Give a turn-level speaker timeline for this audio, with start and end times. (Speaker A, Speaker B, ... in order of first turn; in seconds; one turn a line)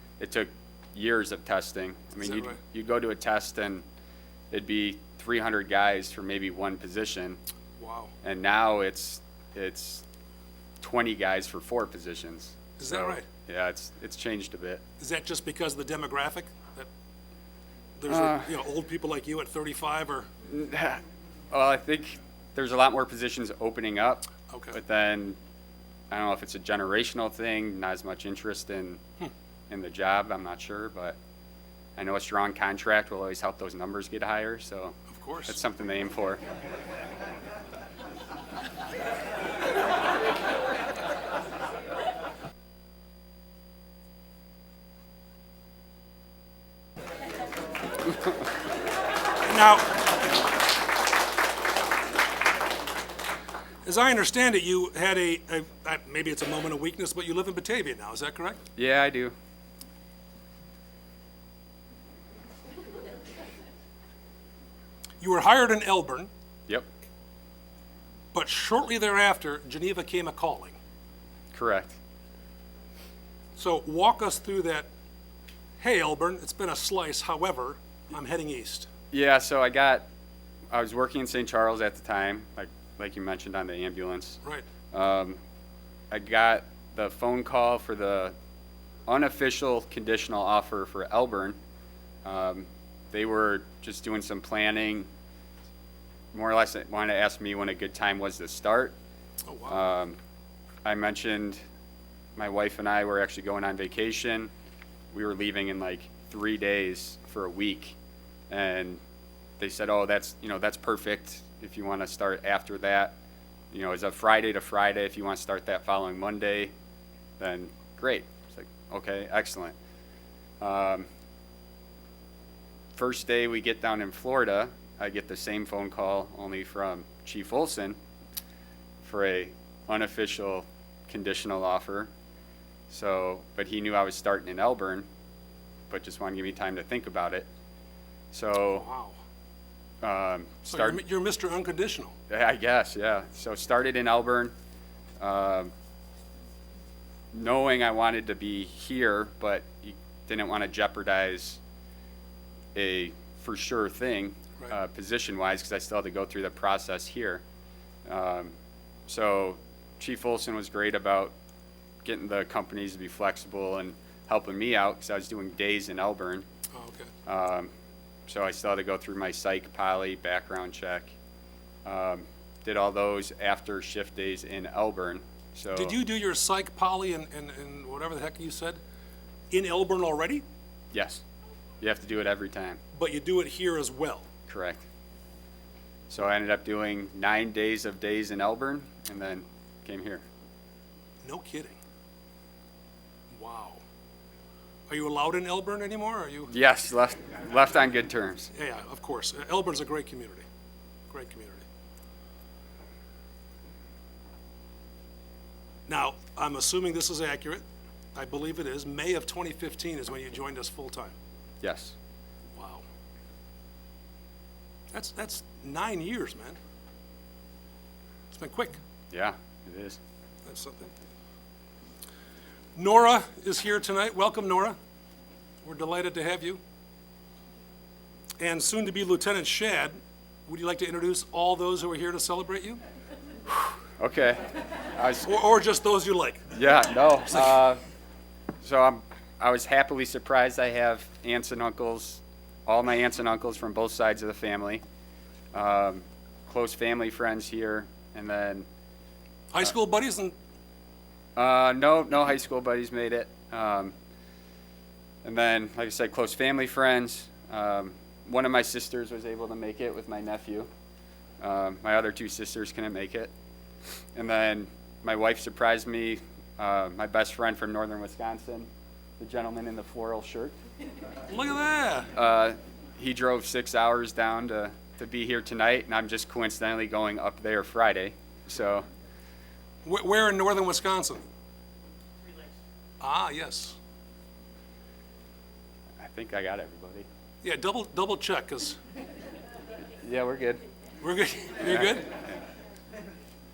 Speaker A: 0.2-3.8
Speaker B: 2.2-2.6
Speaker A: 4.5-7.4
Speaker B: 7.8-8.1
Speaker A: 8.2-10.0
Speaker A: 10.8-14.8
Speaker B: 12.8-13.2
Speaker B: 15.0-16.9
Speaker B: 18.0-20.3
Speaker A: 18.1-18.5
Speaker A: 20.4-25.4
Speaker B: 24.5-24.8
Speaker A: 26.1-29.0
Speaker A: 29.7-31.2
Speaker A: 32.0-36.4
Speaker B: 35.1-35.6
Speaker B: 49.4-50.0
Speaker B: 53.8-58.6
Speaker A: 58.8-59.3
Speaker B: 65.2-66.3
Speaker B: 68.3-70.8
Speaker A: 71.5-72.0
Speaker B: 73.5-74.9
Speaker B: 75.8-78.9
Speaker A: 79.1-80.0
Speaker A: 80.7-84.4
Speaker A: 84.9-85.4
Speaker A: 86.1-88.3
Speaker A: 89.1-91.6
Speaker A: 92.2-95.1
Speaker A: 96.3-98.9
Speaker B: 99.5-99.9
Speaker A: 99.7-100.2
Speaker A: 100.8-101.6
Speaker A: 102.4-104.5
Speaker A: 105.1-108.0
Speaker A: 108.5-109.0
Speaker A: 109.6-113.2
Speaker A: 113.7-116.7
Speaker A: 117.4-119.7
Speaker A: 120.6-121.1
Speaker A: 123.0-128.0
Speaker A: 129.0-132.1
Speaker A: 132.9-135.1
Speaker A: 135.9-137.5
Speaker A: 138.3-138.9
Speaker B: 138.7-139.2
Speaker A: 140.0-141.0
Speaker B: 140.7-142.1
Speaker A: 142.3-144.5
Speaker A: 145.2-145.7
Speaker A: 147.3-151.6
Speaker A: 152.7-157.4
Speaker A: 158.1-158.5
Speaker A: 159.1-161.3
Speaker A: 162.0-166.4
Speaker B: 166.7-167.1
Speaker A: 167.2-167.7
Speaker A: 168.3-171.1
Speaker A: 171.8-176.0
Speaker B: 175.7-178.8
Speaker B: 179.5-180.4
Speaker A: 180.9-181.2
Speaker A: 181.8-182.8
Speaker B: 182.9-184.2
Speaker A: 184.5-184.8
Speaker A: 186.1-190.2
Speaker B: 191.2-191.8
Speaker B: 193.3-193.8
Speaker B: 194.9-196.5
Speaker A: 196.5-198.5
Speaker B: 198.5-200.4
Speaker B: 201.1-201.6
Speaker B: 205.9-207.6
Speaker B: 208.1-211.1
Speaker A: 211.6-211.9
Speaker B: 212.5-212.8
Speaker B: 214.9-216.6
Speaker B: 218.3-218.8
Speaker A: 219.1-220.0
Speaker B: 220.4-220.9
Speaker B: 222.7-224.8
Speaker B: 225.6-226.6
Speaker B: 228.4-232.8
Speaker A: 233.5-235.3
Speaker B: 235.2-236.5
Speaker A: 236.5-237.8
Speaker A: 238.6-244.8
Speaker A: 245.5-248.7
Speaker B: 249.5-250.3
Speaker A: 251.3-253.9
Speaker A: 255.2-260.7
Speaker A: 261.4-263.3
Speaker A: 264.1-270.6
Speaker B: 271.3-272.1
Speaker A: 272.1-278.9
Speaker B: 279.8-281.2
Speaker B: 283.0-283.8
Speaker A: 286.0-287.1
Speaker B: 287.4-288.8
Speaker A: 290.0-290.6
Speaker B: 291.0-292.2
Speaker A: 291.7-292.3